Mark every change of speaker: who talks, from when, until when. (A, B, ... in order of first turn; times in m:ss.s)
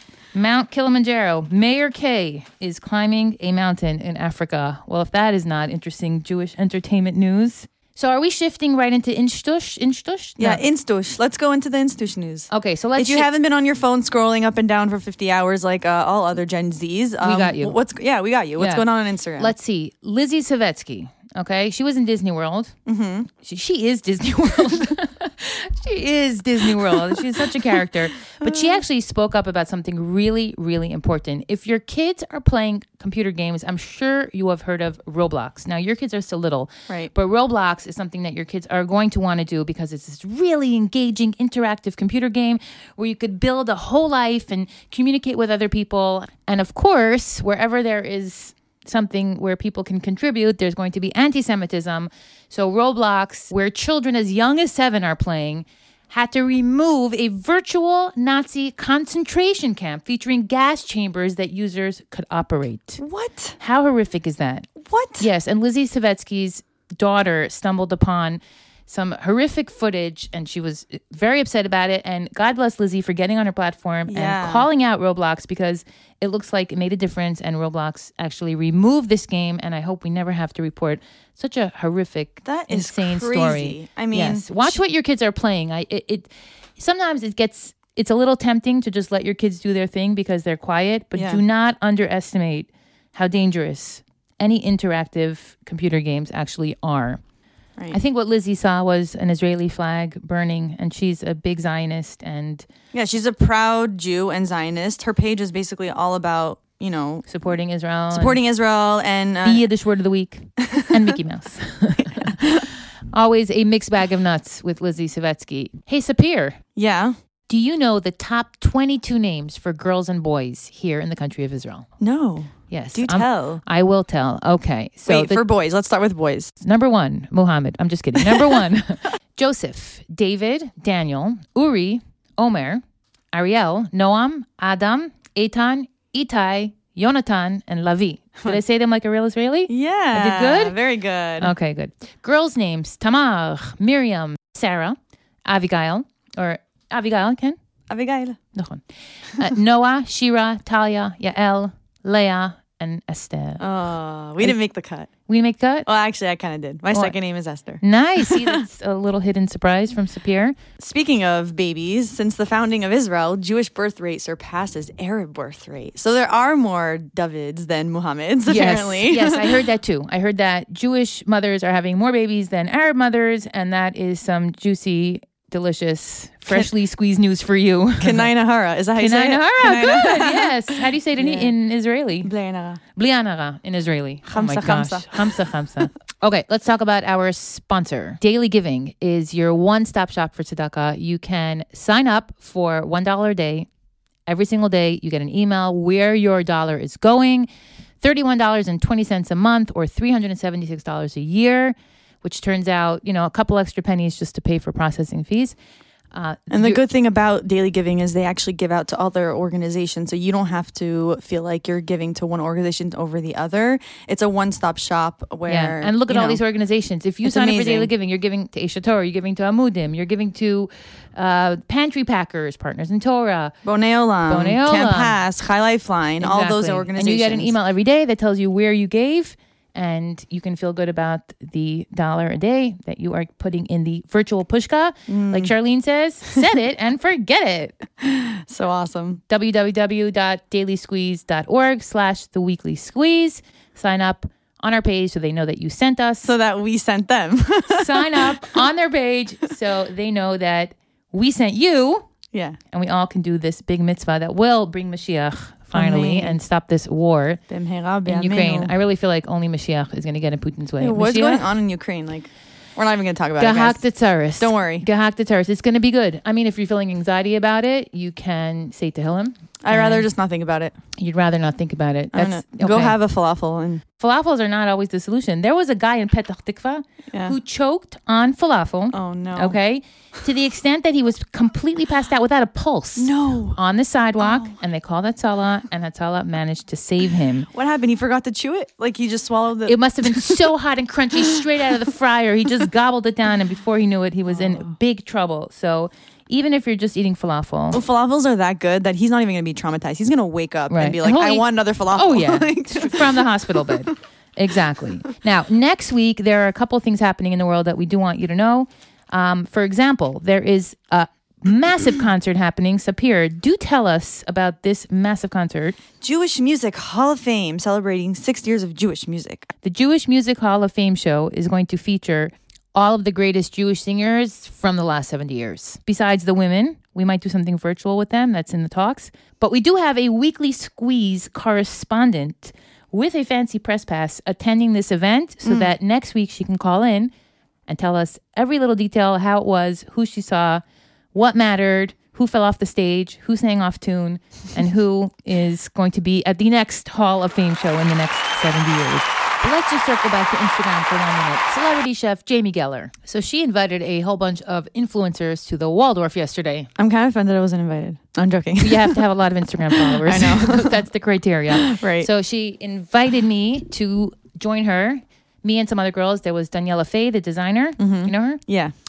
0:00.3-0:10.6 A
0:10.4-0:19.5 B
0:12.5-0:13.3 A
0:17.2-0:17.8 A
0:18.6-0:18.8 A
0:19.4-0:22.7 A
0:22.9-0:23.3 B
0:23.4-1:03.0 A
0:26.6-0:28.8 B
1:03.0-1:03.6 B
1:03.6-1:37.2 A
1:04.8-1:05.3 B
1:14.1-1:14.7 B
1:22.4-1:24.8 B
1:31.2-1:31.4 B
1:37.9-1:42.7 A
1:42.9-1:47.3 B
1:47.3-1:48.4 A
1:48.1-1:49.7 B
1:49.4-1:56.6 A
1:50.6-1:51.1 B
1:52.2-1:52.6 B
1:56.8-1:57.2 B
1:57.5-2:01.9 A
2:02.0-2:03.6 B
2:02.7-2:05.4 A
2:05.1-2:06.5 B
2:06.6-2:12.8 A
2:08.3-2:08.6 B
2:13.3-2:20.8 A
2:19.7-2:21.5 B
2:21.4-2:27.6 A
2:27.9-2:28.4 B
2:28.6-2:28.8 A
2:29.3-2:33.6 A
2:33.6-2:35.1 B
2:35.3-2:35.9 A
2:35.9-2:38.6 B
2:37.8-2:40.6 A
2:40.8-2:49.6 B
2:48.5-2:58.3 A
2:58.0-3:01.5 B
2:59.0-3:02.3 A
3:02.2-3:02.8 B
3:03.0-3:13.7 A
3:04.3-3:05.4 B
3:14.3-3:17.5 A
3:18.0-3:25.6 A
3:26.1-3:26.8 A
3:26.5-3:36.4 B
3:35.5-3:43.5 A
3:37.2-3:37.9 B
3:43.6-3:47.6 B
3:44.3-3:45.2 A
3:46.2-3:57.9 A
3:55.1-3:55.5 B
3:58.0-3:59.2 B
3:59.3-4:06.3 A
4:06.2-4:08.6 B
4:07.7-4:12.1 A
4:12.3-4:12.6 B
4:12.7-4:17.4 A
4:15.7-4:16.4 B
4:17.5-4:18.7 B
4:18.1-4:21.5 A
4:20.8-4:23.8 B
4:23.4-4:30.1 A
4:24.4-4:24.9 B
4:29.6-4:30.7 B
4:31.0-4:33.0 A
4:32.1-4:33.8 B
4:34.0-4:47.5 A
4:38.9-4:39.6 B
4:43.0-4:43.6 B
4:44.2-4:44.6 B
4:47.5-4:50.5 B
4:49.7-4:57.8 A
4:54.3-4:54.7 B
4:57.7-5:03.8 B
5:00.7-5:15.8 A
5:16.0-5:19.5 B
5:19.6-5:37.1 A
5:35.4-5:35.7 B
5:37.7-5:40.6 A
5:41.1-5:56.7 A
5:56.8-5:59.0 B
5:58.6-6:08.4 A
5:59.7-6:00.8 B
6:01.6-6:02.1 B
6:07.8-6:08.7 B